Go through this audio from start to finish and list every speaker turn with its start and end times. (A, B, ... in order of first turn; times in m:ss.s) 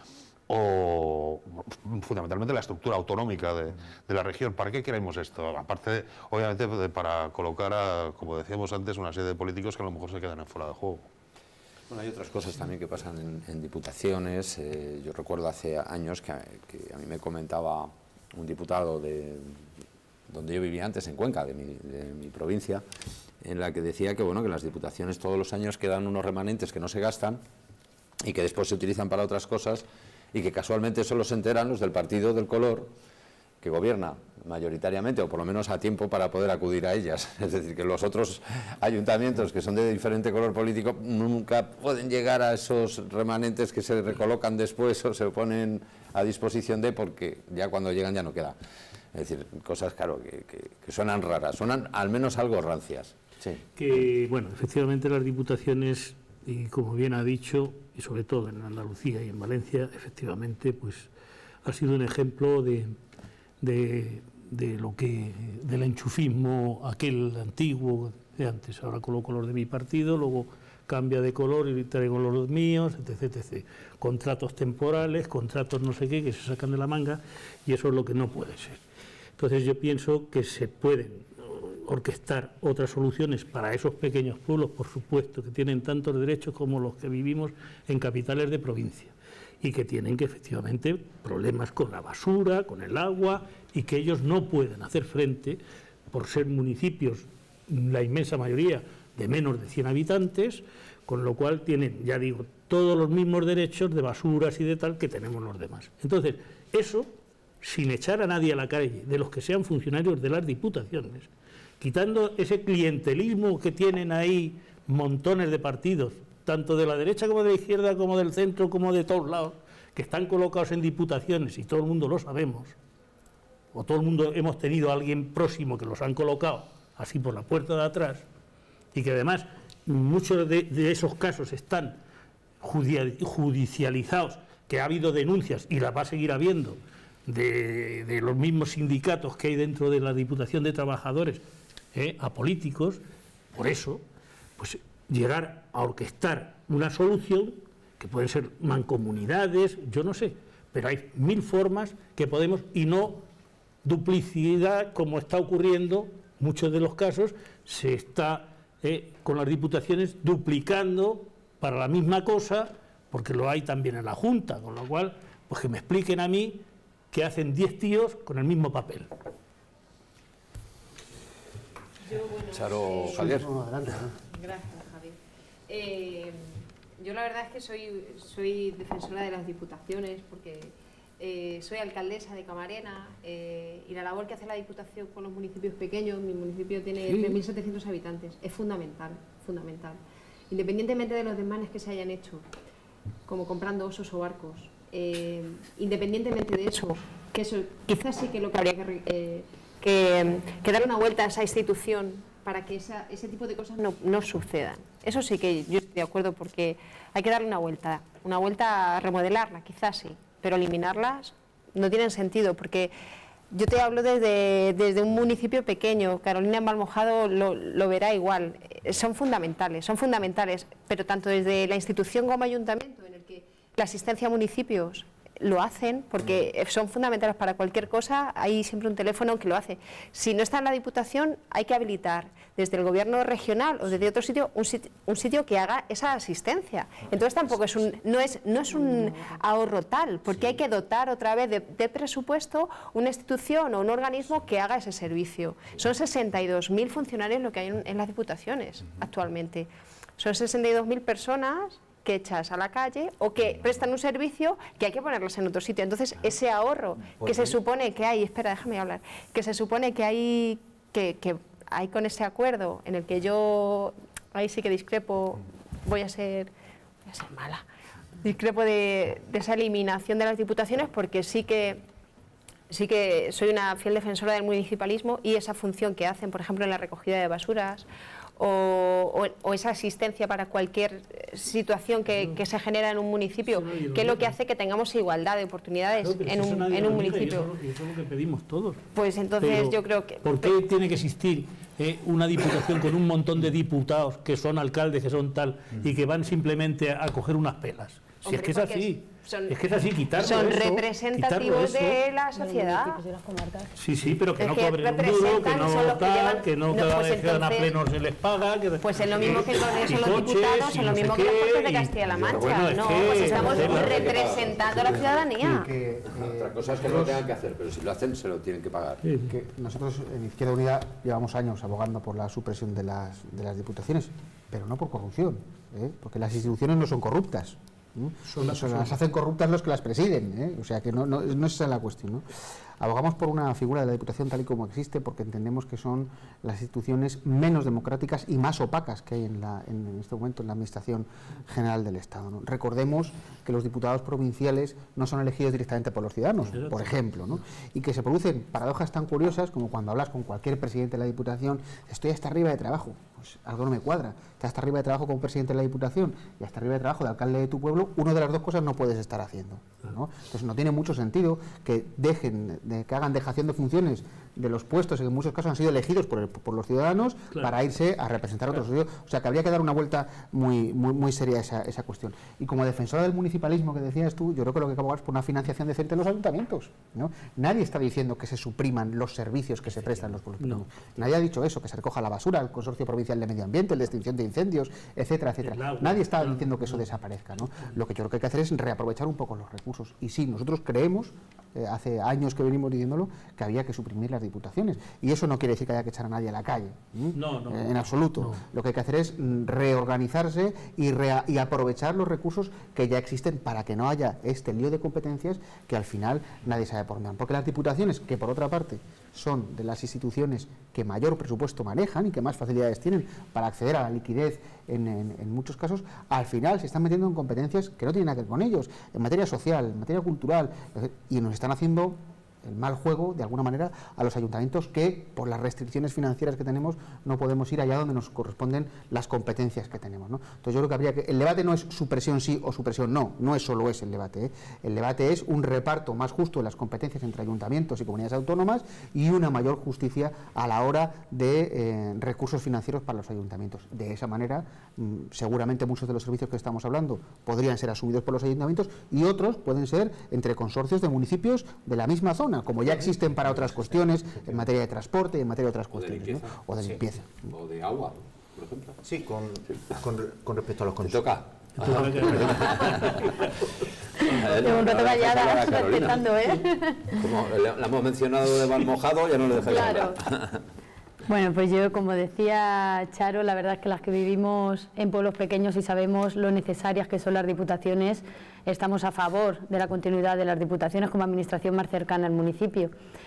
0:00.5-0:11.1 A
0:11.9-0:19.6 B
0:20.3-0:22.8 B
0:23.4-0:27.4 B
0:28.2-0:32.9 B
0:33.6-0:48.6 B
0:49.1-0:53.2 B
0:53.8-1:01.1 C
1:01.6-1:03.0 C
1:03.6-1:18.8 C
1:19.4-1:47.1 C
1:47.6-1:51.3 C
1:51.8-2:02.8 C
2:03.7-2:08.2 C
2:08.9-2:12.0 C
2:12.6-2:21.4 C
2:21.9-2:23.0 C
2:23.5-2:24.0 C
2:24.6-2:33.2 C
2:33.8-2:49.1 C
2:52.0-2:53.4 D
2:52.5-2:53.5 B
2:53.1-2:54.2 E
2:54.2-2:55.2 D
2:55.7-3:10.0 D
3:07.1-3:07.4 C
3:10.5-3:12.4 D
3:13.3-3:32.9 D
3:33.5-4:26.5 D
3:58.8-3:59.4 F
4:17.2-4:17.6 G
4:27.1-4:27.6 D
4:28.2-4:31.8 D
4:32.7-4:37.9 D
4:38.4-4:47.5 D
4:43.4-4:44.3 C
4:46.0-4:48.8 C
4:48.9-4:50.6 D
4:49.4-5:02.0 C
4:58.2-4:59.6 D
5:00.2-5:03.0 D
5:02.4-5:03.8 F
5:03.8-5:14.1 C
5:04.4-5:07.7 D
5:08.8-5:15.7 D
5:12.3-5:12.6 E
5:13.2-5:15.2 B
5:13.3-5:17.3 E
5:16.1-5:19.0 B
5:19.0-5:19.3 C
5:19.3-5:32.3 E
5:28.3-5:29.0 C
5:32.8-7:37.3 E
5:46.5-5:47.0 C
6:19.7-6:20.6 C
6:25.4-6:26.9 C
6:37.1-6:38.4 C
7:35.7-7:38.8 B
7:38.8-7:41.1 G
7:40.8-7:43.2 B
7:41.6-7:43.4 C
7:44.0-7:46.4 B
7:44.1-7:47.0 F
7:46.9-7:50.4 B
7:49.5-7:49.9 F
7:49.6-7:50.0 D
7:51.1-8:02.7 F